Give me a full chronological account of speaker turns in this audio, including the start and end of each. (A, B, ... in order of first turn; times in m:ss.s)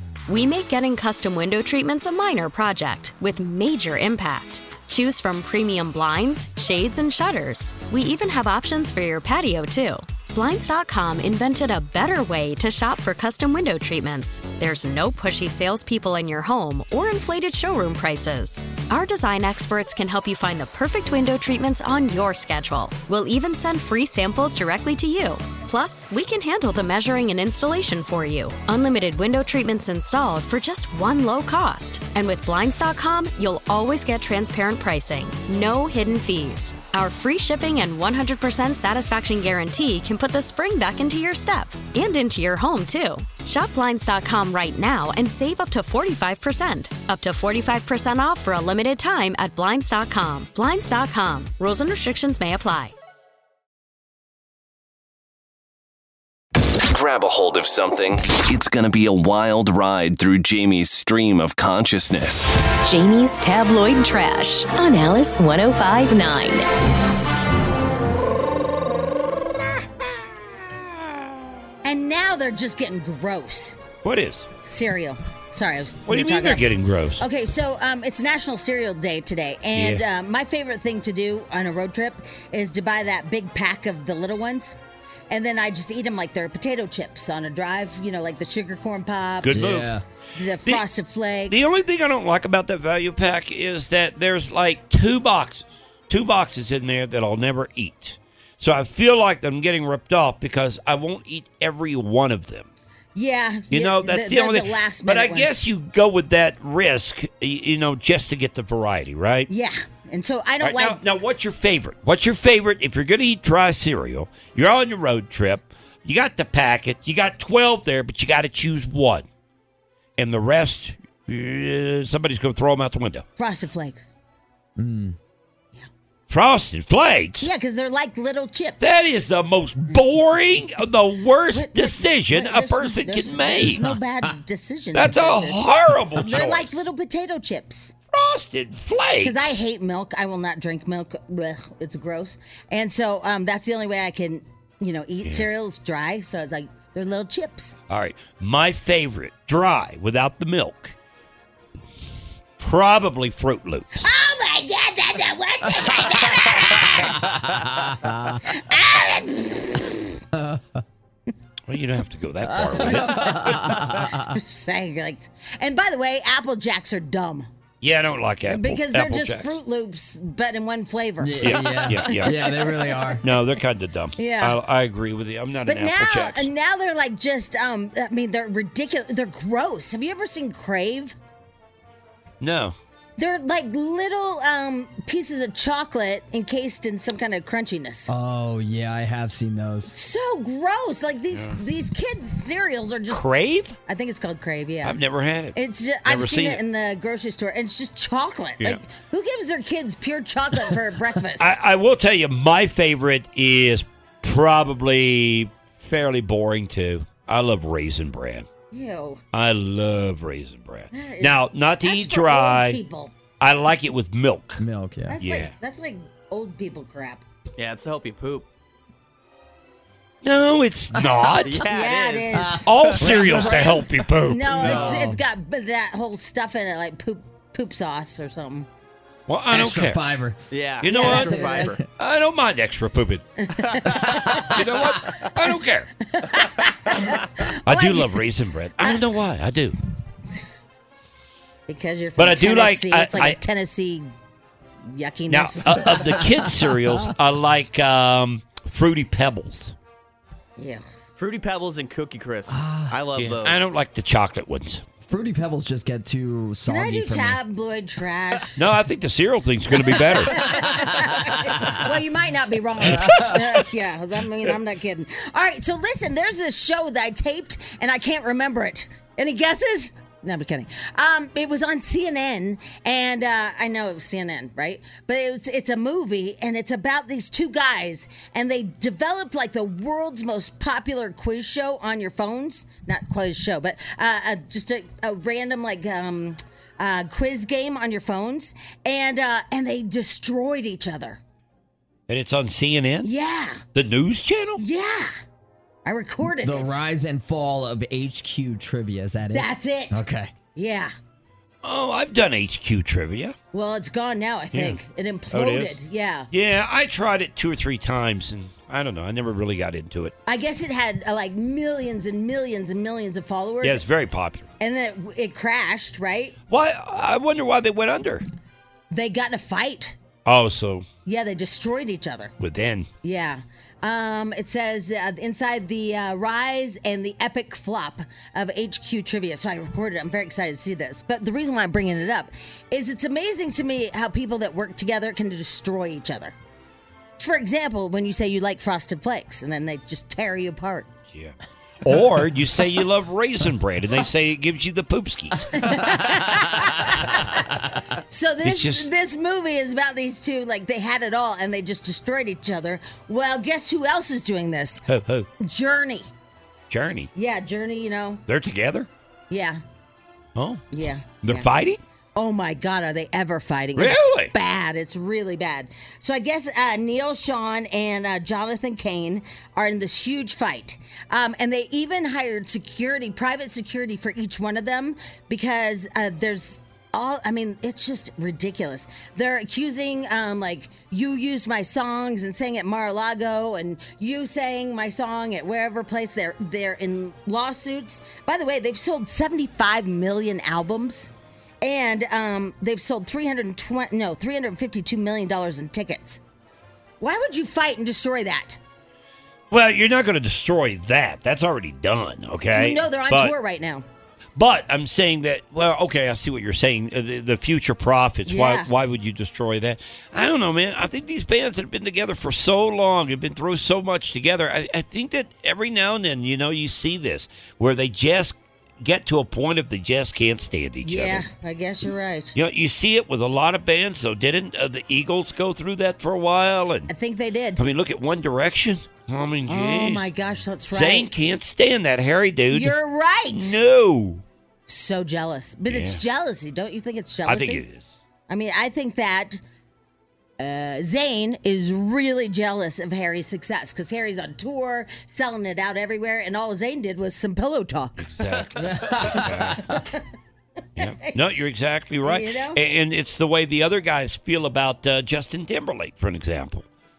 0:00.3-0:52.9 A
0:56.7-1:02.5 B
1:02.8-1:06.6 C
1:11.8-1:13.8 D
1:14.0-1:14.5 E
1:14.6-1:24.8 D
1:16.1-1:17.2 E
1:19.7-1:20.0 E
1:25.3-1:31.8 D
1:29.4-1:30.0 E
1:29.5-1:30.0 F
1:31.5-1:42.7 E
1:43.1-1:45.5 D
1:43.7-1:49.5 E
1:49.5-1:51.0 D
1:50.6-1:59.2 E
2:00.2-2:03.2 E
2:03.4-2:04.1 D
2:04.8-2:05.2 F
2:06.3-2:07.5 E
2:07.4-2:08.8 D
2:08.8-2:13.9 E
2:11.5-2:15.6 D
2:13.7-2:14.3 F
2:14.9-2:16.7 E
2:16.2-2:17.9 D
2:18.1-2:19.6 E
2:19.2-2:27.8 D
2:27.9-2:31.0 E
2:32.6-2:34.1 E
2:34.0-2:37.3 D
2:37.2-2:38.4 F
2:38.4-2:40.2 D
2:40.3-2:40.8 F
2:41.7-2:43.7 E
2:42.4-2:47.5 D
2:43.1-2:44.3 F
2:47.8-2:49.5 E
2:48.5-2:52.2 D
2:51.2-2:53.2 F
2:51.4-2:52.6 E
2:53.2-2:56.5 E
2:54.2-2:54.6 D
2:55.6-3:01.1 D
3:02.4-3:02.8 E
3:03.2-3:08.1 D
3:08.1-3:09.9 F
3:09.9-3:13.2 D
3:11.3-3:11.6 E
3:13.1-3:13.8 E
3:13.8-3:15.0 D
3:14.8-3:16.6 E
3:15.5-3:21.5 D
3:21.4-3:28.5 E
3:28.7-3:29.2 D
3:29.3-3:32.8 E
3:30.9-3:33.1 D
3:33.4-3:34.6 E
3:34.6-3:35.2 F
3:35.1-3:37.2 D
3:35.2-3:35.5 E
3:37.6-3:38.4 G
3:40.2-3:41.6 E
3:41.0-3:41.3 F
3:41.4-3:43.4 G
3:41.6-3:48.7 D
3:42.4-3:43.4 F
3:42.6-3:45.0 E
3:44.5-3:45.2 F
3:44.5-3:45.1 G
3:49.3-3:50.0 E
3:49.5-3:50.4 F
3:50.5-3:51.8 G
3:50.8-3:53.2 E
3:50.8-3:51.8 D
3:51.2-3:51.8 F
3:53.4-3:54.4 D
3:53.7-3:54.2 G
3:53.8-3:55.9 E
3:54.0-3:54.4 F
3:56.0-3:58.2 D
3:57.6-3:59.8 E
4:01.7-4:04.1 D
4:02.2-4:03.4 E
4:04.9-4:06.2 D
4:05.3-4:09.7 E
4:10.6-4:10.8 D
4:11.2-4:13.6 G
4:12.5-4:13.1 F
4:13.1-4:14.8 E
4:15.1-4:17.4 F
4:16.6-4:18.6 D
4:18.6-4:20.6 E
4:19.8-4:51.2 D
4:20.7-4:21.6 F
4:22.8-4:23.2 E
4:23.0-4:23.3 F
4:52.1-4:53.1 E
4:53.0-4:53.6 D
4:53.7-4:54.6 E
4:54.6-4:55.1 D
4:55.8-4:56.8 D
4:56.3-5:00.3 F
4:59.3-5:00.0 D
5:00.5-5:00.9 D
5:01.6-5:03.3 E
5:03.5-5:06.3 D
5:05.3-5:05.8 E
5:06.3-5:10.1 E
5:10.2-5:13.8 D
5:13.6-5:14.5 E
5:14.6-5:16.4 D
5:16.5-5:18.2 E
5:18.9-5:20.0 D
5:20.2-5:20.8 E
5:21.0-5:22.3 D
5:22.4-5:22.9 E
5:23.0-5:36.3 D
5:37.2-5:40.9 D
5:41.1-5:45.9 E
5:45.5-5:54.8 D
5:48.4-5:48.9 E
5:54.9-5:55.3 E
5:55.4-5:56.1 D
5:56.7-5:57.1 E
5:57.1-5:58.2 D
5:58.3-5:58.9 E
5:59.3-5:59.6 D
6:00.4-6:00.6 E
6:00.7-6:01.5 D
6:01.2-6:01.8 E
6:02.2-6:31.1 D
6:03.8-6:04.3 E
6:31.6-6:36.2 D
6:37.0-6:38.6 D
6:39.5-6:43.3 E
6:42.5-6:43.8 D
6:44.4-7:01.2 E
6:48.3-6:48.7 D
7:00.8-7:02.3 D
7:02.3-7:06.9 E
7:06.9-7:07.6 D
7:07.6-7:10.1 E
7:09.5-7:11.1 D
7:10.7-7:12.8 E
7:12.5-7:13.6 D
7:13.3-7:14.2 E
7:14.7-7:17.6 D
7:15.7-7:16.0 E
7:17.2-7:17.9 E
7:18.3-7:19.4 D
7:20.4-7:28.2 D
7:28.0-7:29.7 E
7:28.6-7:29.8 F
7:29.6-7:30.0 D
7:30.8-7:36.6 E
7:32.0-7:32.6 D